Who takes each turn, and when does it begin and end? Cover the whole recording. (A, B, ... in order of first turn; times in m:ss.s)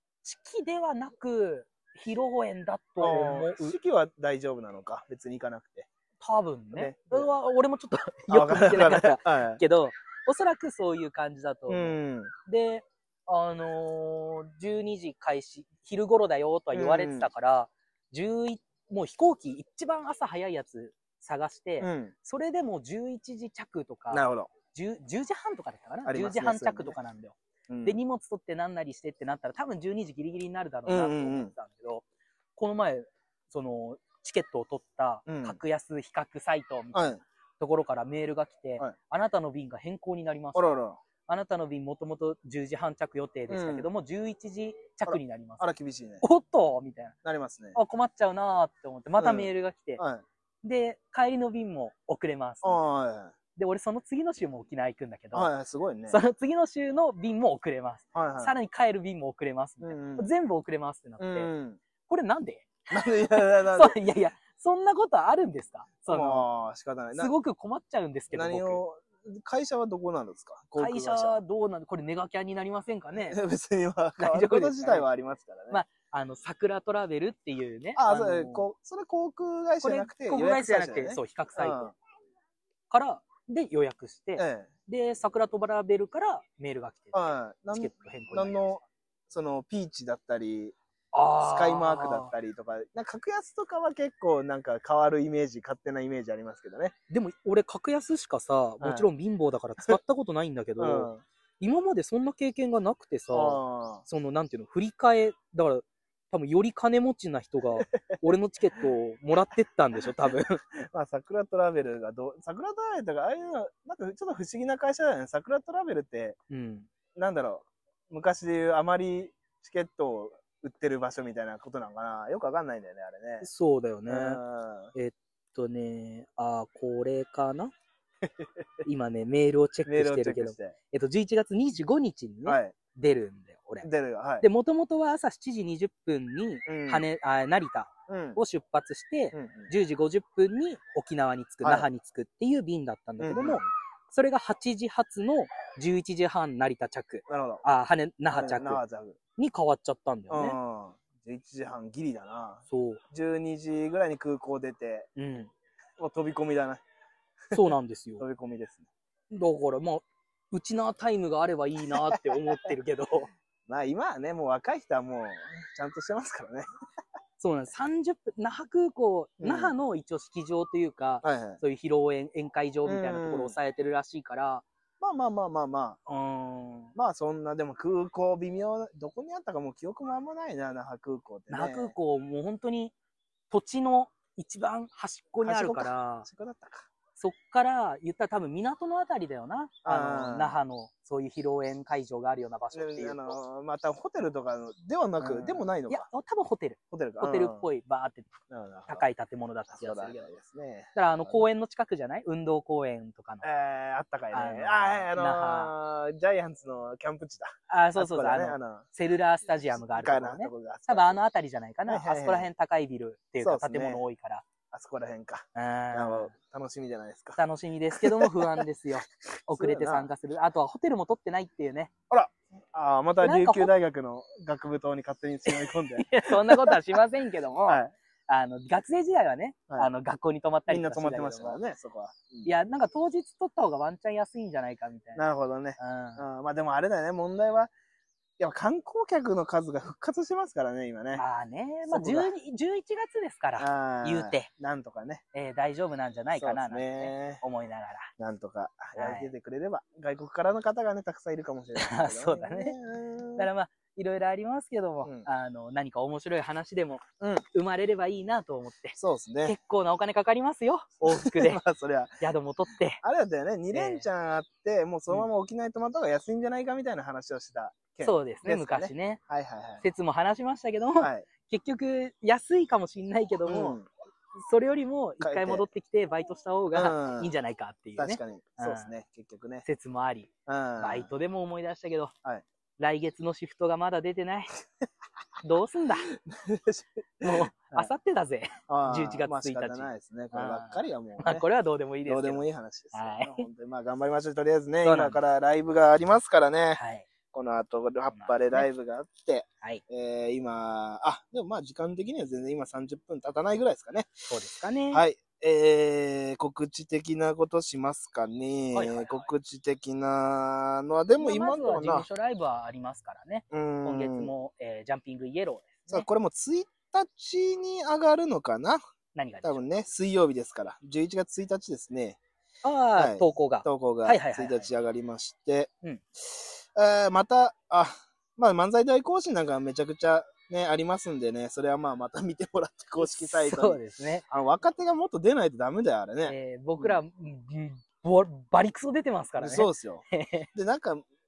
0:00.2-0:03.8 A
0:03.0-0:05.9 B
0:06.2-0:11.9 A
0:06.7-0:07.3 B
0:08.3-0:09.6 B
0:11.7-0:12.3 B
0:12.4-0:32.0 A
0:16.7-0:17.3 B
0:21.8-0:22.1 B
0:24.1-0:24.5 B
0:26.0-0:27.0 B
0:27.7-0:28.0 B
0:30.9-0:31.5 B
0:32.6-0:40.7 A
0:35.3-0:35.6 B
0:36.9-0:37.2 B
0:40.5-0:41.0 B
0:41.3-0:47.2 A
0:43.5-0:43.9 B
0:45.0-0:46.2 B
0:47.2-0:47.8 B
0:47.7-0:50.0 A
0:49.2-0:50.2 B
0:50.6-0:52.8 A
0:52.6-0:53.3 B
0:53.6-0:55.5 A
0:55.3-0:56.2 B
0:56.1-1:01.5 A
0:58.1-0:58.5 B
0:59.8-1:00.3 B
1:01.2-1:01.8 B
1:02.1-1:06.5 A
1:02.9-1:04.0 B
1:06.0-1:07.3 B
1:07.1-1:08.8 A
1:08.3-1:11.4 B
1:10.8-1:13.4 A
1:13.2-1:15.8 B
1:14.2-1:15.0 A
1:15.7-1:18.7 A
1:18.0-1:22.0 B
1:19.8-1:21.9 A
1:22.9-1:28.7 A
1:24.4-1:24.7 B
1:27.1-1:30.8 B
1:31.1-1:32.3 A
1:31.4-1:36.9 B
1:37.1-1:50.6 A
1:38.8-1:39.1 B
1:40.8-1:41.2 B
1:43.3-1:44.0 B
1:50.8-1:56.4 B
1:56.5-1:56.9 A
1:57.1-2:03.5 B
2:03.4-2:04.4 A
2:04.1-2:04.9 B
2:04.9-2:07.7 A
2:08.8-2:13.9 A
2:09.8-2:10.8 B
2:12.4-2:12.7 B
2:13.8-2:14.4 B
2:14.4-2:28.8 A
2:16.6-2:17.0 B
2:18.1-2:18.4 B
2:19.3-2:19.7 B
2:23.2-2:23.7 B
2:27.3-2:27.6 B
2:28.3-2:29.2 B
2:29.4-2:30.6 A
2:30.3-2:35.1 B
2:32.7-2:33.0 A
2:35.2-2:35.5 A
2:36.0-2:36.8 B
2:37.5-2:38.2 A
2:38.2-2:38.9 B
2:39.3-2:43.3 A
2:42.0-2:42.4 B
2:43.7-2:46.7 B
2:47.4-2:54.6 A
2:49.4-2:49.7 B
2:51.2-2:51.6 B
2:52.8-2:53.5 B
2:55.0-2:56.0 B
2:56.1-2:56.9 A
2:57.0-3:01.9 B
3:01.5-3:02.9 A
3:03.5-3:06.3 A
3:05.4-3:06.9 B
3:07.2-3:13.4 A
3:09.8-3:10.5 B
3:12.7-3:16.0 B
3:15.2-3:18.3 A
3:16.9-3:17.6 B
3:18.5-3:19.0 B
3:18.9-3:20.3 A
3:19.7-3:21.4 B
3:20.9-3:23.4 A
3:23.4-3:28.8 B
3:24.3-3:25.7 A
3:27.7-3:34.4 A
3:29.8-3:31.2 B
3:31.9-3:32.5 B
3:33.4-3:34.0 B
3:34.7-3:37.4 B
3:35.5-3:36.3 A
3:37.4-3:41.9 A
3:37.9-3:38.6 B
3:39.5-3:40.1 B
3:42.1-3:46.9 B
3:43.2-3:43.7 A
3:45.4-3:51.6 A
3:47.6-3:47.9 B
3:50.7-3:52.5 B
3:52.4-3:55.2 A
3:55.2-3:57.7 B
3:55.8-3:56.2 A
3:58.4-4:01.2 B
4:01.1-4:04.5 A
4:01.8-4:02.3 B
4:03.6-4:05.2 B
4:05.3-4:08.1 A
4:06.4-4:07.4 B
4:08.2-4:13.5 B
4:09.0-4:09.3 A
4:11.8-4:12.8 A
4:13.4-4:21.6 A
4:19.0-4:19.6 B
4:21.0-4:22.2 B
4:22.2-4:23.0 A
4:23.0-4:29.8 B
4:23.7-4:24.1 A
4:28.0-4:29.2 A
4:29.8-4:33.8 A
4:31.0-4:31.3 B
4:33.4-4:33.9 B
4:34.3-4:38.9 A
4:35.2-4:35.6 B
4:36.7-4:37.3 B
4:38.0-4:39.6 B
4:39.6-4:42.1 A
4:40.5-4:41.1 B
4:42.8-4:44.5 A
4:45.4-4:46.1 A
4:46.2-4:47.9 B
4:47.2-4:53.5 A
4:48.7-4:51.4 B
4:52.0-5:04.1 B
4:54.8-4:55.2 A
4:56.8-4:57.1 A
4:58.1-4:58.7 A
5:04.3-5:05.0 A
5:04.9-5:12.0 B
5:08.7-5:09.3 A
5:11.2-5:16.1 A
5:13.5-5:14.3 B
5:15.9-5:18.8 B
5:19.1-5:19.6 A
5:19.4-5:22.2 B
5:22.6-5:24.7 A
5:23.0-5:25.7 B
5:26.3-5:37.0 B
5:33.0-5:34.2 A
5:36.2-5:40.5 A
5:39.4-5:41.0 B